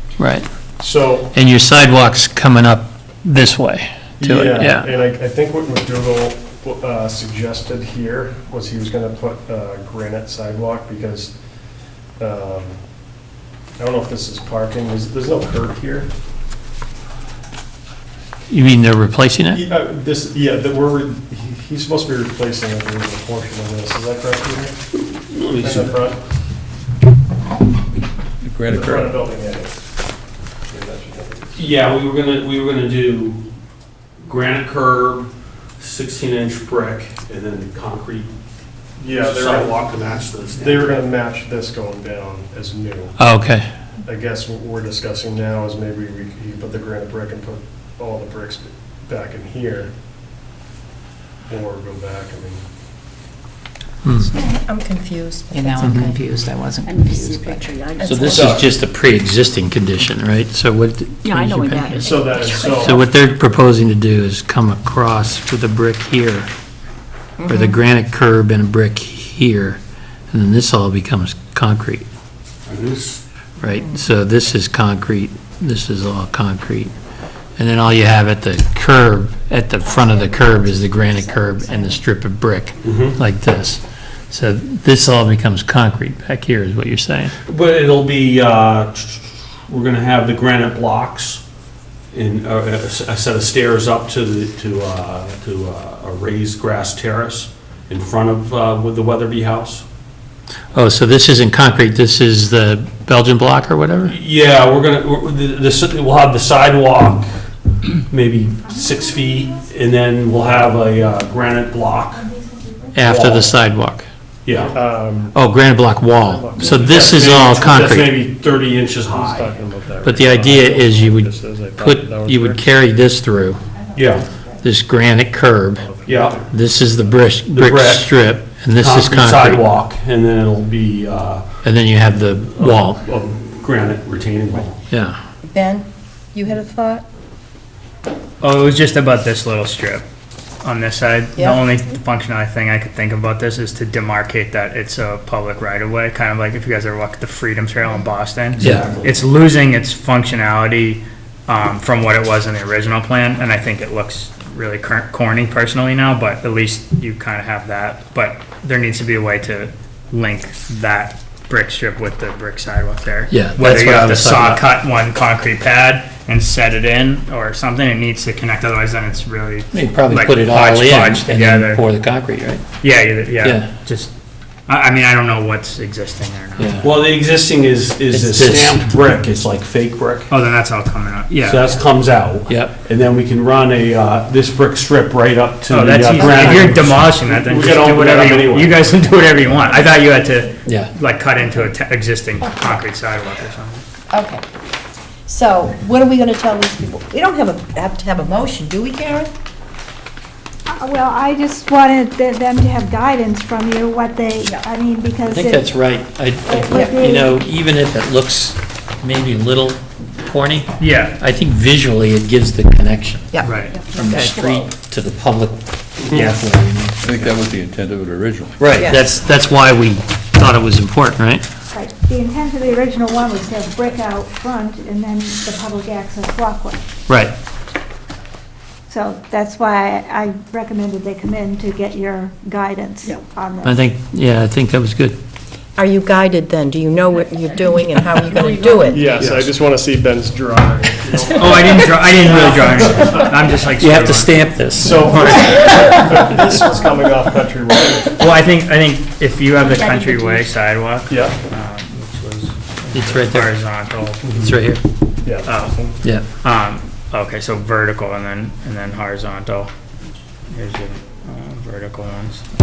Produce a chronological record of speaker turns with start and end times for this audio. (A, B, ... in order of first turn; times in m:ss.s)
0:00.2-0:00.5 A
0:00.8-0:01.3 B
0:01.3-0:04.9 A
0:04.2-0:11.3 B
0:12.2-0:12.8 B
0:13.8-0:16.1 B
0:18.5-0:19.6 A
0:19.5-0:24.8 B
0:25.0-0:26.0 C
0:25.6-0:26.2 B
0:28.5-0:29.0 D
0:28.7-0:29.7 B
0:30.7-0:31.7 B
0:31.6-0:33.4 C
0:34.2-0:35.3 C
0:35.8-0:38.3 C
0:39.0-0:39.8 B
0:39.0-0:40.9 C
0:40.5-0:43.2 B
0:43.2-0:43.6 A
0:44.0-0:49.9 B
0:51.4-0:52.6 B
0:54.0-0:54.3 A
0:54.3-0:56.0 E
0:55.5-0:57.7 F
0:56.8-0:58.5 G
0:58.0-0:58.3 E
0:58.0-1:06.5 A
1:01.2-1:02.9 G
1:02.0-1:03.0 B
1:07.4-1:07.8 E
1:07.5-1:09.8 A
1:10.3-1:12.0 A
1:12.7-1:13.2 C
1:13.6-1:16.9 A
1:17.6-1:27.3 A
1:22.8-1:23.2 C
1:27.5-1:31.4 C
1:32.1-1:39.8 C
1:40.7-1:44.1 A
1:44.0-1:47.3 C
1:48.1-1:52.3 C
1:52.9-1:54.1 A
1:53.0-1:53.5 C
1:54.4-1:54.7 C
1:54.6-1:55.4 B
1:55.3-1:58.1 A
1:56.2-1:58.4 B
1:56.7-1:59.5 C
1:59.1-2:02.6 B
2:00.0-2:03.6 A
2:03.9-2:04.3 C
2:04.6-2:05.9 A
2:05.8-2:06.5 B
2:06.1-2:06.5 C
2:06.5-2:09.6 A
2:07.5-2:08.1 C
2:08.7-2:11.4 C
2:11.6-2:13.0 A
2:12.5-2:14.8 C
2:14.9-2:15.2 A
2:15.4-2:17.0 E
2:18.4-2:20.0 H
2:20.6-2:51.8 H
2:21.4-2:21.6 E
2:28.6-2:29.2 C
2:28.6-2:28.8 A
2:43.3-2:44.6 A
2:49.7-2:52.6 A
2:52.8-2:54.1 H
2:53.4-2:53.7 A
2:54.7-2:56.8 H
2:56.6-2:56.9 A
2:56.8-3:00.3 C
2:58.1-2:58.8 A
3:00.3-3:01.8 H
3:01.4-3:08.8 C
3:02.5-3:02.7 A
3:05.7-3:13.8 H
3:10.6-3:10.9 A
3:14.1-3:14.4 E
3:15.2-3:19.3 E
3:20.7-3:25.7 I
3:25.3-3:37.3 A
3:26.4-3:27.4 I
3:30.8-3:31.2 H
3:33.3-3:34.4 E
3:33.4-3:33.8 H
3:36.1-3:36.4 H
3:37.0-3:38.5 D
3:38.6-3:41.4 A
3:38.8-3:39.0 E
3:41.7-3:46.8 I
3:47.1-3:47.3 A
3:48.9-3:53.8 I
3:53.6-3:55.2 A
3:55.8-3:59.0 E
3:58.0-3:59.0 G
3:58.9-4:03.4 B
3:59.1-3:59.5 C
4:01.3-4:04.4 H
4:03.8-4:06.1 A
4:04.8-4:08.1 B
4:05.0-4:05.6 H
4:08.2-4:14.3 H
4:11.1-4:11.3 B
4:12.9-4:13.5 A
4:14.2-4:14.5 B
4:14.4-4:14.8 A
4:15.2-4:16.0 B
4:15.4-4:15.8 H
4:16.4-4:19.7 H
4:20.5-4:22.4 H